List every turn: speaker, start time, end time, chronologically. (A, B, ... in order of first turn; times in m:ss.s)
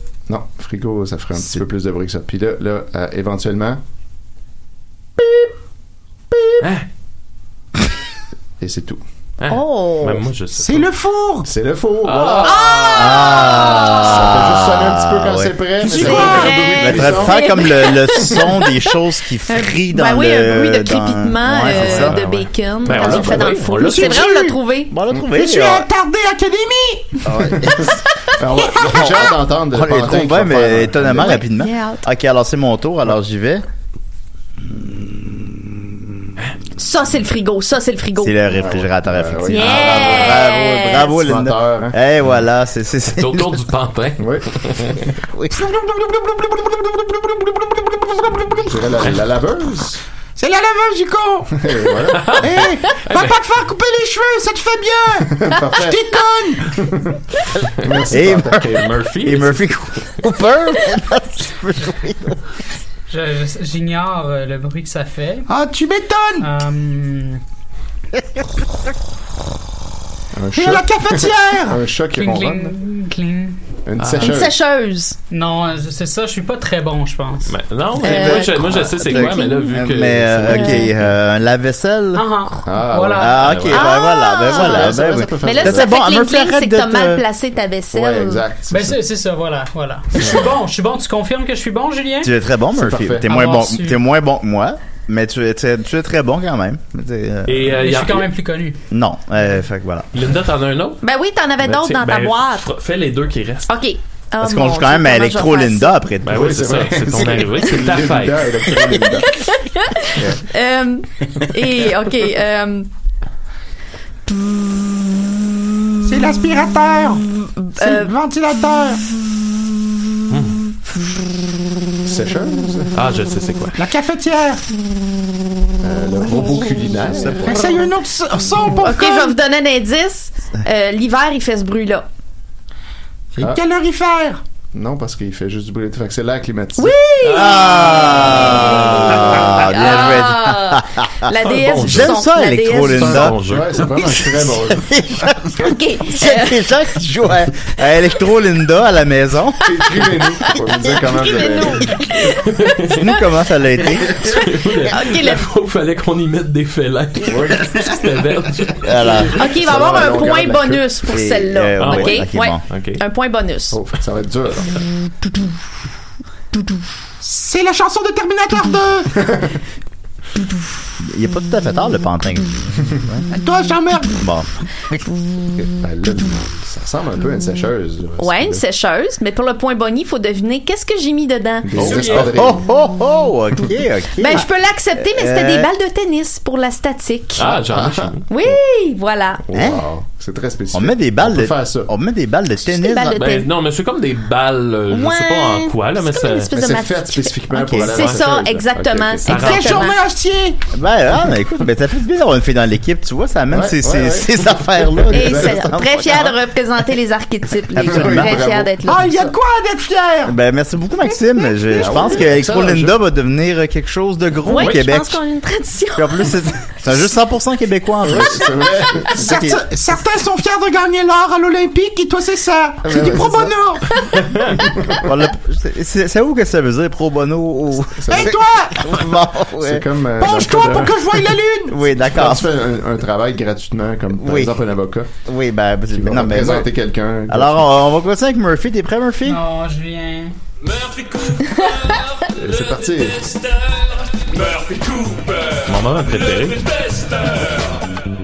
0:00.3-0:03.8 A
0:05.2-0:05.5 A
0:06.6-0:06.9 B
0:08.6-0:09.0 A
0:09.4-0:10.9 B
0:09.5-0:10.2 C
0:10.5-0:11.5 D
0:11.4-0:12.9 A
0:12.0-0:13.2 B
0:12.4-0:14.1 C
0:12.9-0:22.2 E
0:14.0-0:17.4 A
0:15.8-0:16.8 D
0:15.9-0:19.0 C
0:19.5-0:24.9 C
0:21.7-0:24.3 B
0:22.8-0:23.6 A
0:23.7-0:24.6 D
0:24.9-0:25.9 E
0:25.3-0:27.2 D
0:27.2-0:31.4 A
0:27.3-0:28.0 E
0:28.8-0:33.6 E
0:31.2-0:32.1 C
0:34.6-0:36.3 E
0:36.8-0:38.4 C
0:38.2-0:43.5 E
0:38.5-0:40.5 A
0:39.5-0:41.2 C
0:41.1-0:42.0 A
0:43.1-0:45.0 B
0:44.2-0:45.0 A
0:45.5-0:48.7 D
0:48.6-0:50.0 A
0:50.4-0:51.5 D
0:51.6-0:52.4 A
0:52.1-0:53.4 B
0:52.4-0:56.7 D
0:55.3-0:56.2 A
0:56.7-0:57.2 A
0:57.8-0:59.6 B
0:57.8-0:58.8 A
0:58.1-0:58.6 E
0:59.2-1:02.4 E
1:03.1-1:05.5 F
1:05.5-1:06.5 D
1:06.4-1:07.4 F
1:10.3-1:12.7 A
1:10.5-1:11.8 D
1:12.1-1:13.6 F
1:13.8-1:14.6 A
1:14.0-1:14.4 B
1:14.2-1:15.2 C
1:15.3-1:17.6 F
1:17.5-1:20.9 B
1:18.0-1:19.7 C
1:18.0-1:22.3 E
1:20.5-1:20.9 C
1:22.2-1:23.4 F
1:22.6-1:23.4 A
1:23.2-1:27.2 E
1:23.4-1:23.8 B
1:23.7-1:28.4 C
1:24.5-1:25.9 A
1:27.9-1:29.0 A
1:28.7-1:32.3 F
1:30.2-1:30.6 A
1:32.2-1:37.8 E
1:32.7-1:33.4 A
1:33.3-1:34.0 F
1:37.5-1:38.3 B
1:37.7-1:38.8 F
1:38.9-1:40.1 E
1:40.1-1:41.0 B
1:41.0-1:42.6 C
1:41.6-1:43.7 B
1:43.7-1:46.0 C
1:44.4-1:46.6 E
1:46.2-1:49.0 B
1:46.3-1:49.4 A
1:49.3-1:52.9 C
1:50.2-1:50.4 A
1:56.0-1:59.0 D
1:57.4-1:58.1 C
2:00.3-2:00.6 B
2:02.0-2:03.0 A
2:03.0-2:03.8 B
2:03.8-2:04.6 D
2:05.8-2:07.8 A
2:07.5-2:09.4 D
2:08.8-2:12.1 C
2:13.3-2:14.4 D
2:14.7-2:17.0 A
2:16.8-2:18.4 C
2:17.2-2:20.1 B
2:17.3-2:29.6 E
2:18.3-2:19.2 A
2:19.4-2:23.3 C
2:21.4-2:22.2 B
2:22.9-2:23.8 B
2:23.0-2:25.3 A
2:25.6-2:26.6 C
2:29.6-2:31.9 A
2:30.8-2:33.2 C
2:32.4-2:33.0 B
2:33.0-2:34.1 E
2:34.0-2:39.2 B
2:34.2-2:35.4 C
2:37.2-2:37.8 A
2:38.8-2:39.5 E
2:39.3-2:43.8 C
2:39.4-2:41.0 A
2:41.1-2:42.6 E
2:41.8-2:43.0 B
2:43.7-2:44.7 A
2:47.2-2:49.1 D
2:49.2-2:49.5 A
2:51.0-2:53.3 E
2:53.3-2:54.2 D
2:54.1-2:54.5 E
2:55.6-2:58.6 A
2:58.2-3:02.3 C
3:01.6-3:02.7 A
3:01.8-3:02.3 F
3:02.1-3:05.7 E
3:04.2-3:07.5 C
3:07.4-3:08.2 B
3:07.4-3:08.6 A
3:08.3-3:09.4 C
3:09.5-3:11.9 A
3:09.5-3:09.8 E
3:10.7-3:13.2 E
3:12.7-3:13.5 C
3:13.1-3:16.5 B
3:14.9-3:20.0 C
3:16.5-3:19.4 A
3:17.5-3:18.1 E
3:19.3-3:19.9 B
3:19.3-3:20.6 D
3:20.7-3:26.3 E
3:23.5-3:25.6 A
3:25.1-3:29.3 C
3:27.7-3:28.4 E
3:27.9-3:28.8 A
3:28.8-3:30.4 D
3:30.3-3:35.2 E
3:31.7-3:33.0 A
3:34.5-3:36.4 C
3:36.0-3:39.6 E
3:38.0-3:39.3 A
3:39.2-3:43.8 D
3:42.8-3:43.5 A
3:44.2-3:45.1 A
3:45.0-3:49.8 E
3:48.0-3:48.4 A
3:48.1-3:48.8 D
3:49.6-3:51.2 A
3:50.2-3:51.7 D
3:51.7-3:52.5 E
3:52.0-3:55.1 A
3:54.2-3:54.6 E
3:55.2-3:56.7 E
3:55.9-3:57.7 A
3:57.3-3:59.4 E
3:59.2-4:00.4 F
4:00.8-4:01.3 B
4:01.5-4:02.0 C
4:02.4-4:03.4 A
4:04.3-4:07.6 B